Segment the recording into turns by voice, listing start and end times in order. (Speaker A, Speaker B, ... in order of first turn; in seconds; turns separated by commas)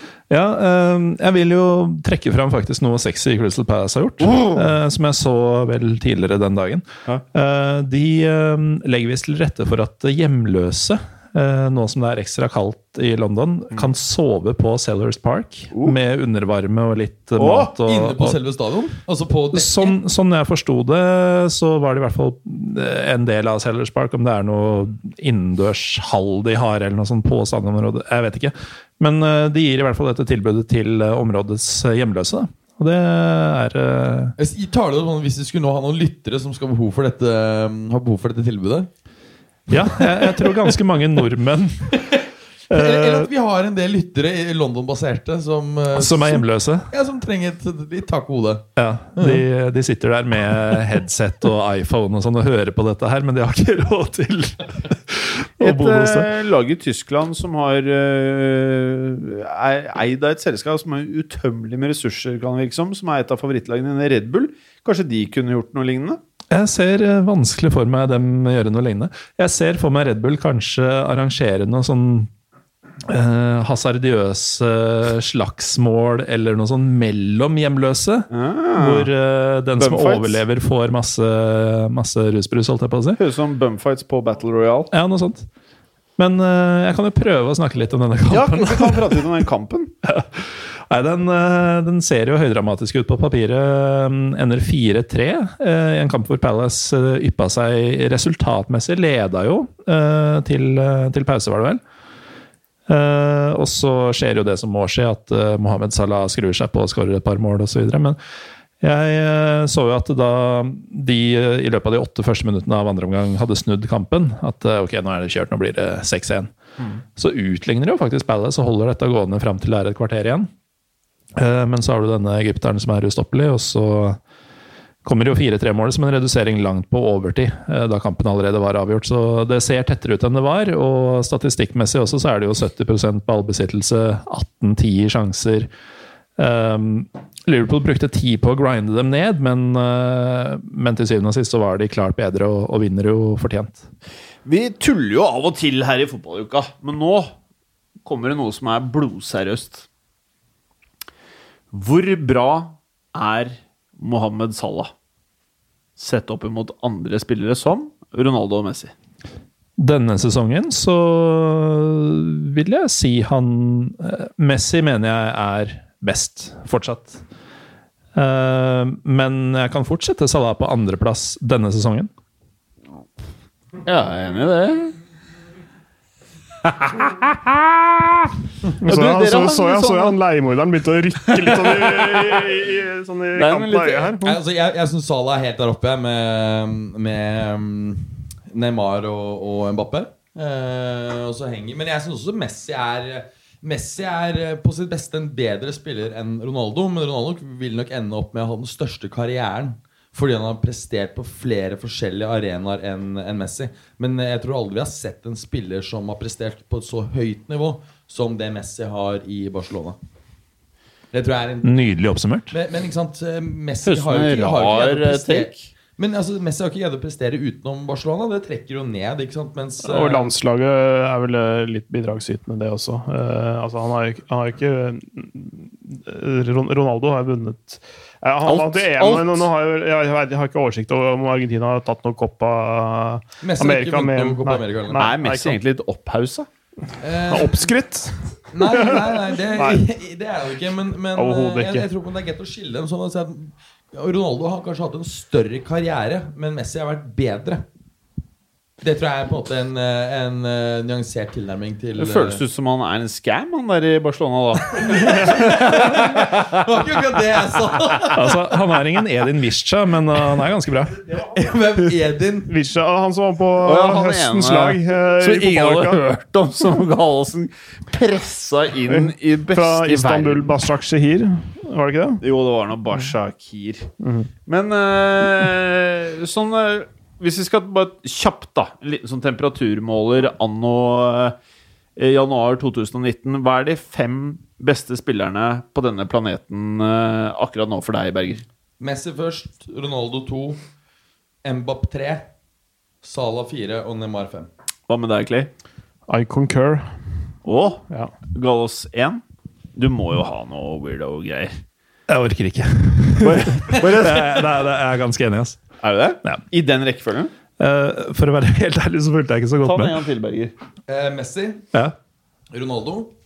Speaker A: 0.3-18.4, Speaker B: 4.3-4.6, Speaker B: 17.4-17.7, Speaker C: 17.9-20.0, Speaker A: 19.5-34.4, Speaker C: 34.4-38.9, Speaker A: 39.7-42.1, Speaker C: 40.1-40.7, Speaker C: 41.9-49.4, Speaker A: 42.7-43.3, Speaker A: 45.9-46.9, Speaker A: 48.8-56.3, Speaker B: 55.6-66.2, Speaker A: 66.5-72.3, Speaker A: 73.1-83.2, Speaker B: 78.3-79.1, Speaker B: 79.8-80.4, Speaker B: 83.2-84.9, Speaker A: 84.9-85.5, Speaker A: 86.2-89.3, Speaker B: 88.3-89.9, Speaker A: 90.0-101.8, Speaker A: 102.9-108.2, Speaker A: 108.8-116.5, Speaker A: 117.2-120.5, Speaker A: 121.4-124.2, Speaker A: 125.0-135.7, Speaker A: 136.4-143.8, Speaker B: 144.5-147.3, Speaker B: 148.0-149.9, Speaker B: 151.7-154.9, Speaker B: 156.0-158.9, Speaker A: 159.8-167.2, Speaker A: 168.2-172.1, Speaker B: 173.8-175.0, Speaker B: 176.7-178.3, Speaker B: 178.8-180.2, Speaker D: 178.8-184.4, Speaker B: 181.3-182.7, Speaker B: 183.4-184.1, Speaker C: 184.2-210.0, Speaker C: 211.1-211.9, Speaker A: 211.6-212.5, Speaker C: 212.5-220.3, Speaker B: 213.8-215.7, Speaker D: 219.8-235.6, Speaker B: 228.4-229.5, Speaker C: 233.4-235.0, Speaker B: 234.9-236.5, Speaker C: 237.0-237.7, Speaker D: 237.3-239.8, Speaker C: 238.5-247.7, Speaker D: 241.2-241.9, Speaker C: 248.8-252.4, Speaker B: 252.0-256.6, Speaker C: 254.7-258.4, Speaker A: 258.1-261.0, Speaker C: 261.1-262.5, Speaker D: 262.5-266.0, Speaker B: 263.6-270.5, Speaker D: 268.9-272.2, Speaker B: 272.2-273.9, Speaker D: 274.0-274.3, Speaker B: 274.5-281.4, Speaker B: 282.0-288.4, Speaker C: 288.8-290.6, Speaker C: 291.4-292.3, Speaker C: 293.0-294.5, Speaker B: 294.9-295.5, Speaker D: 296.1-296.9, Speaker B: 297.4-299.2, Speaker B: 299.8-301.6, Speaker A: 302.1-305.6, Speaker B: 303.2-304.4, Speaker B: 305.8-307.3, Speaker A: 307.6-310.0, Speaker B: 309.6-310.5, Speaker C: 310.9-311.7, Speaker C: 312.5-313.1